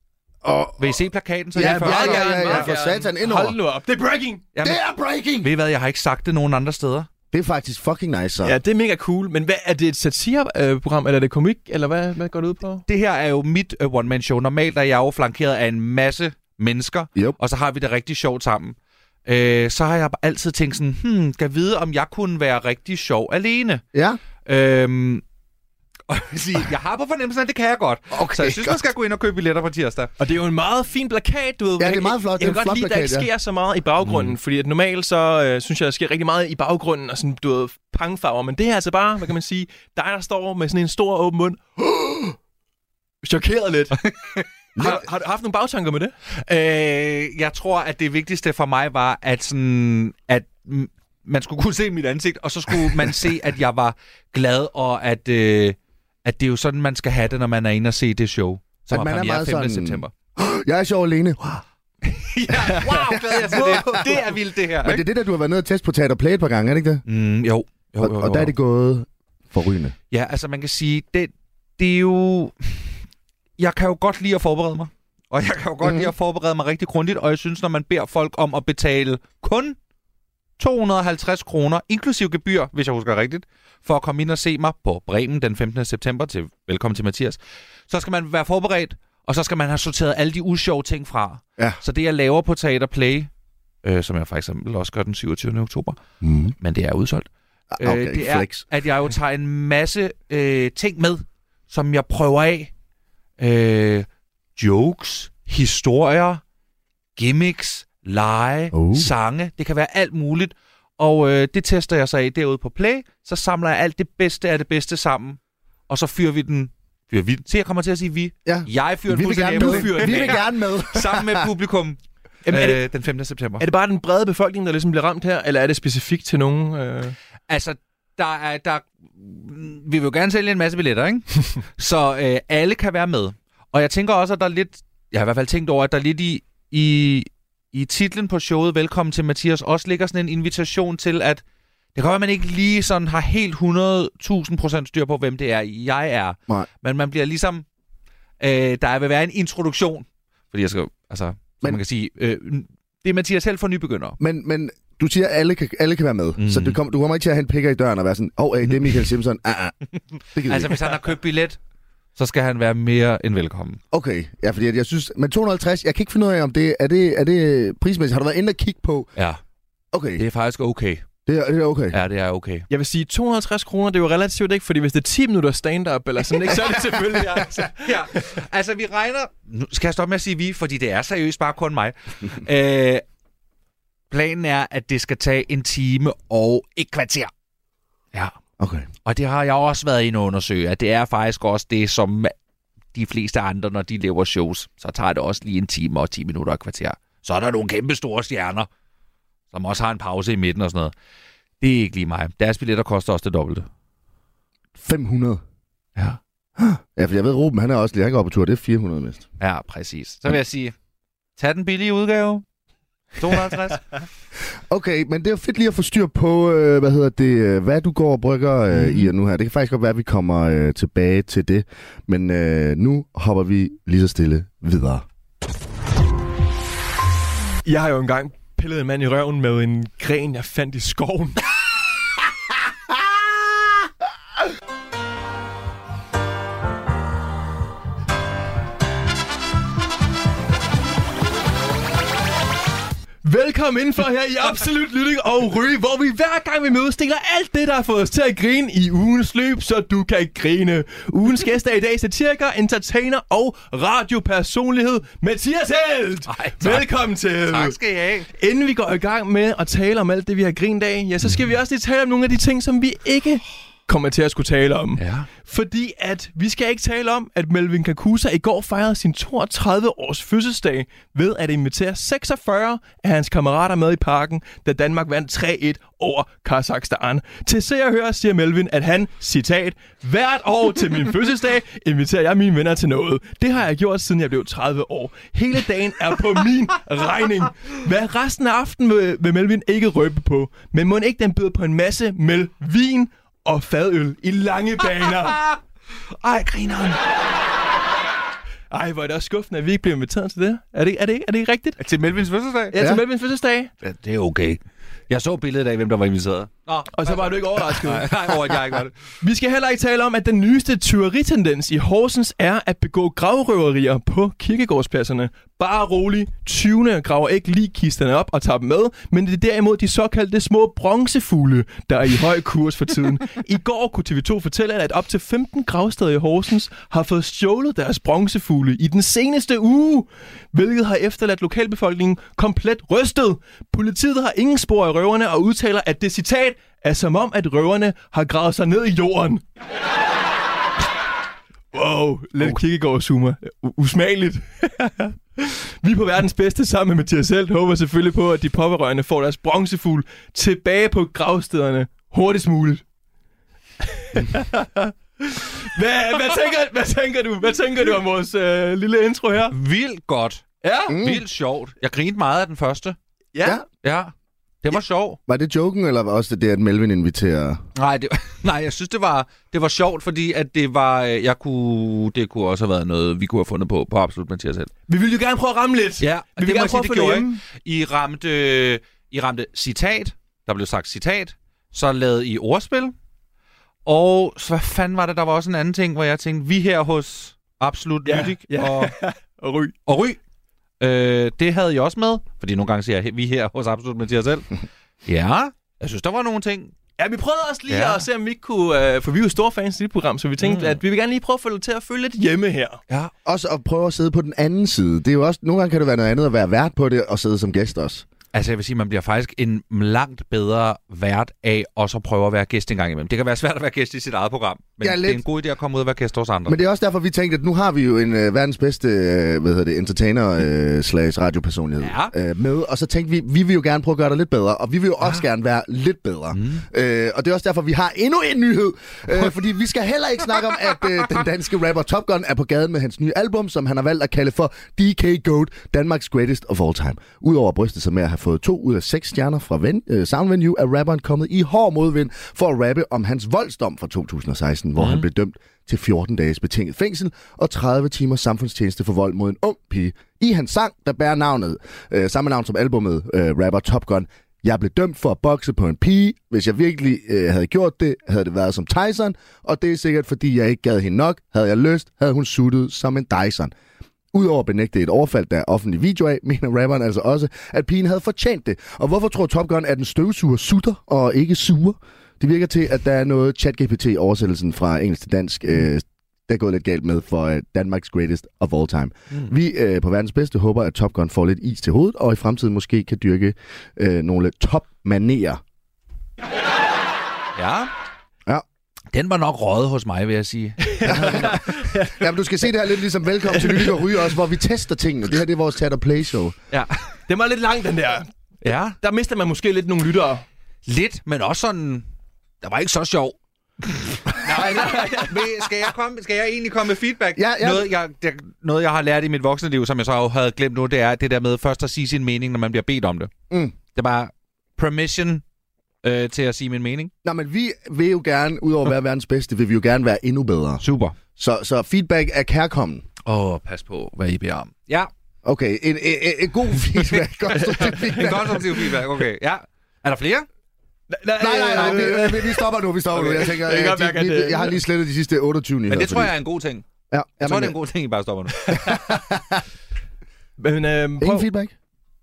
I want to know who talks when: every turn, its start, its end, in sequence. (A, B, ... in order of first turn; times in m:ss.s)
0:00.4-0:01.0 A
0:00.8-0:02.7 B
0:01.5-0:03.6 A
0:01.6-0:04.4 C
0:04.5-0:04.8 B
0:04.6-0:05.5 A
0:05.4-0:07.1 B
0:07.3-0:08.6 A
0:08.4-0:12.8 C
0:12.9-0:23.8 B
0:23.9-0:24.2 A
0:24.4-0:25.2 B
0:26.1-0:30.1 B
0:28.1-0:28.8 A
0:30.2-0:42.3 C
0:31.8-0:33.3 A
0:34.0-0:34.4 B
0:43.2-0:44.0 C
0:44.8-0:45.0 A
0:44.8-0:46.1 C
0:46.4-1:00.1 B
0:52.8-0:53.2 A
0:58.9-1:01.6 A
1:02.0-1:05.0 B
1:02.8-1:07.0 A
1:07.0-1:08.5 B
1:08.0-1:10.0 A
1:10.1-1:12.7 B
1:13.6-1:19.8 B
1:15.8-1:16.1 A
1:20.6-1:33.3 B
1:33.8-1:36.0 B
1:36.2-1:36.5 A
1:36.6-1:37.3 B
1:37.7-1:38.6 A
1:37.8-1:42.7 B
1:43.4-1:46.4 B
1:47.2-2:03.6 B
1:48.7-1:49.1 A
1:58.4-2:01.5 A
1:59.6-2:00.4 C
2:02.4-2:02.8 C
2:03.6-2:07.2 C
2:07.5-2:21.4 B
2:21.9-2:27.6 B
2:28.4-2:34.2 B
2:34.2-2:39.8 A
2:36.4-2:36.8 B
2:40.3-2:41.0 A
2:40.4-2:41.6 B
2:42.2-2:43.8 B
2:43.9-2:49.1 A
2:49.9-2:50.2 A
2:50.2-2:51.0 B
2:51.2-2:52.0 A
2:51.9-2:52.6 B
2:52.7-2:58.2 C
2:56.9-3:03.0 B
3:04.1-3:07.3 B
3:08.6-3:08.9 A
3:09.0-3:12.3 B
3:12.9-3:18.7 B
3:19.5-3:20.9 B
3:21.6-3:23.7 B
3:24.8-3:25.4 A
3:26.6-3:29.3 A
3:29.4-3:30.7 B
3:31.4-3:32.4 B
3:33.2-3:33.8 B
3:34.7-3:45.0 A
3:38.7-3:39.1 B
3:47.6-3:51.4 C
4:03.2-4:17.8 C
4:16.3-4:18.3 B
4:18.3-4:55.4 C
4:25.0-4:25.3 B
4:56.2-4:57.0 B
4:58.7-5:01.8 C
5:01.8-5:02.8 B
5:02.7-5:03.7 C
5:02.8-5:03.0 A
5:03.8-5:09.0 B
5:06.9-5:39.4 C
5:41.7-5:52.8 C
5:53.8-5:59.6 C
5:59.5-6:03.0 B
6:00.6-6:01.0 C
6:00.9-6:01.2 A
6:03.3-6:03.6 C
6:03.8-6:04.1 B
6:04.6-6:05.2 B
6:05.3-6:07.6 A
6:07.8-6:14.7 B
6:14.9-6:17.4 C
6:16.0-6:22.9 B
6:23.8-6:28.9 B
6:28.0-6:29.7 C
6:29.8-6:30.2 B
6:30.8-6:34.5 B
6:35.0-6:36.7 B
6:37.0-6:42.8 C
6:37.7-6:38.0 B
6:40.4-6:40.8 B
6:43.2-6:48.0 A
6:48.3-6:56.6 B
6:54.8-6:55.2 A
6:56.5-7:43.5 A
7:01.8-7:02.1 B
7:06.3-7:06.6 B
7:24.8-7:25.1 B
7:44.1-8:05.4 A
8:07.4-8:07.7 B
8:08.9-8:11.3 B
8:10.6-8:12.1 C
8:10.8-8:16.3 A
8:13.3-8:13.9 C
8:17.1-8:18.1 C
8:18.4-8:18.8 B
8:18.8-8:20.2 C
8:20.6-8:21.8 B
8:22.4-8:33.1 B
8:24.3-8:25.1 C
8:27.2-8:27.7 A
8:33.3-8:33.5 A
8:33.7-8:35.2 B
8:35.8-8:36.9 B
8:37.0-8:40.6 A
8:40.6-8:41.0 B
8:41.2-8:42.8 A
8:43.0-8:44.9 B
8:45.2-8:48.7 A
8:46.8-8:50.2 B
8:50.9-8:54.6 C
8:51.2-8:56.1 A
8:55.7-8:56.6 B
8:56.9-8:57.6 A
8:57.2-8:58.8 B
8:58.3-8:58.7 C
8:58.5-8:59.4 A
9:00.4-9:01.3 C
9:01.0-9:01.5 A